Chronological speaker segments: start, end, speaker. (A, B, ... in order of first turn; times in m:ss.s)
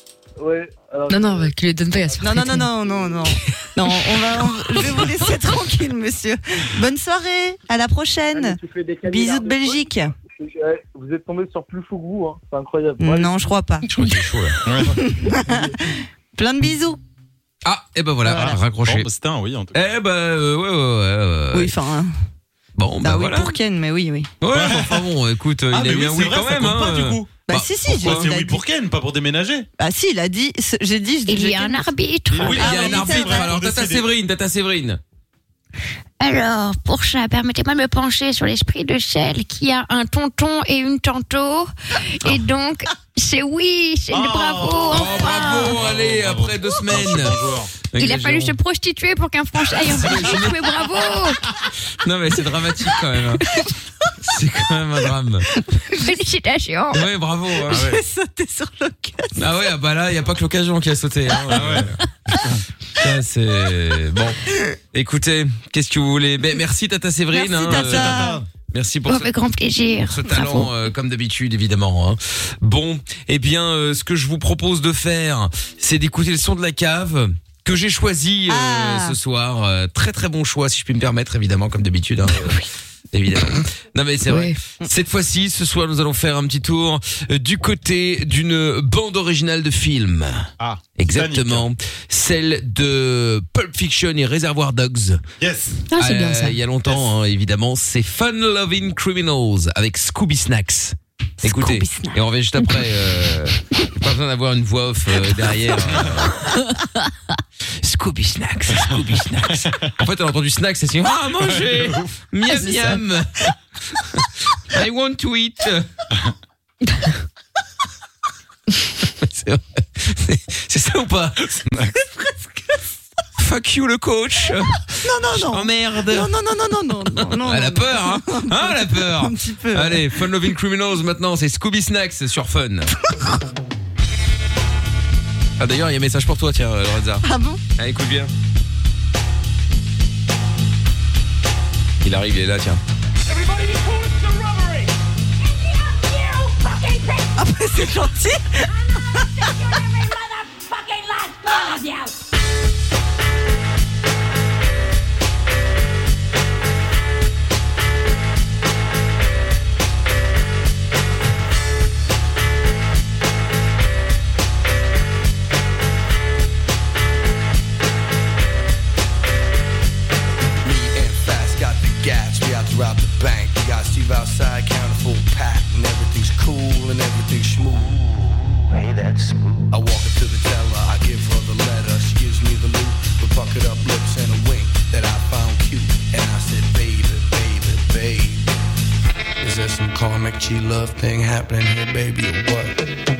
0:00.4-0:01.5 A
0:01.1-0:02.7 B
0:02.2-0:10.1 C
0:02.8-0:03.2 A
0:08.3-0:09.8 A
0:10.4-0:13.3 A
0:13.0-0:13.9 C
0:13.9-0:14.6 D
0:14.6-0:15.0 E
0:14.9-0:17.0 C
0:17.6-0:19.1 D
0:18.2-0:18.6 C
0:18.7-0:19.8 E
0:19.7-0:21.8 D
0:21.5-0:22.1 C
0:22.8-0:23.5 D
0:23.0-0:24.3 C
0:24.4-0:28.3 D
0:24.5-0:25.0 E
0:25.7-0:29.7 E
0:27.4-0:28.6 C
0:29.8-0:33.5 C
0:31.3-0:32.9 F
0:32.3-0:34.0 E
0:32.4-0:35.0 D
0:36.2-0:45.3 F
0:44.1-0:47.7 E
0:44.9-0:48.6 D
0:45.3-0:45.6 C
0:48.0-0:51.4 F
0:49.8-0:50.9 D
0:49.8-0:50.0 E
0:52.0-0:53.5 D
0:53.4-0:53.7 C
0:54.2-0:55.5 D
0:55.5-0:56.0 C
0:56.0-0:57.1 F
0:56.9-0:57.9 D
0:57.6-0:59.5 C
0:57.7-0:58.0 E
0:59.4-1:02.0 D
1:01.4-1:02.6 E
1:03.0-1:04.4 D
1:04.9-1:09.3 D
1:07.3-1:08.4 C
1:07.6-1:08.5 E
1:09.0-1:10.7 F
1:10.0-1:35.2 D
1:18.5-1:19.2 C
1:24.3-1:24.6 B
1:30.6-1:31.6 E
1:35.4-1:35.8 E
1:35.9-1:36.6 B
1:35.9-1:46.5 D
1:41.4-1:42.2 C
1:47.8-1:53.5 D
1:51.4-1:52.0 E
1:54.0-1:55.9 D
1:59.0-2:01.6 D
2:01.7-2:01.9 E
2:02.1-2:02.7 C
2:03.4-2:06.3 D
2:04.9-2:10.2 C
2:07.0-2:12.9 D
2:15.6-2:17.2 D
2:17.2-2:17.6 C
2:17.8-2:18.3 D
2:22.0-2:22.8 D
2:27.3-2:29.8 C
2:30.8-2:31.2 F
2:50.6-2:58.0 G
2:59.7-3:08.6 G
3:09.4-3:12.8 G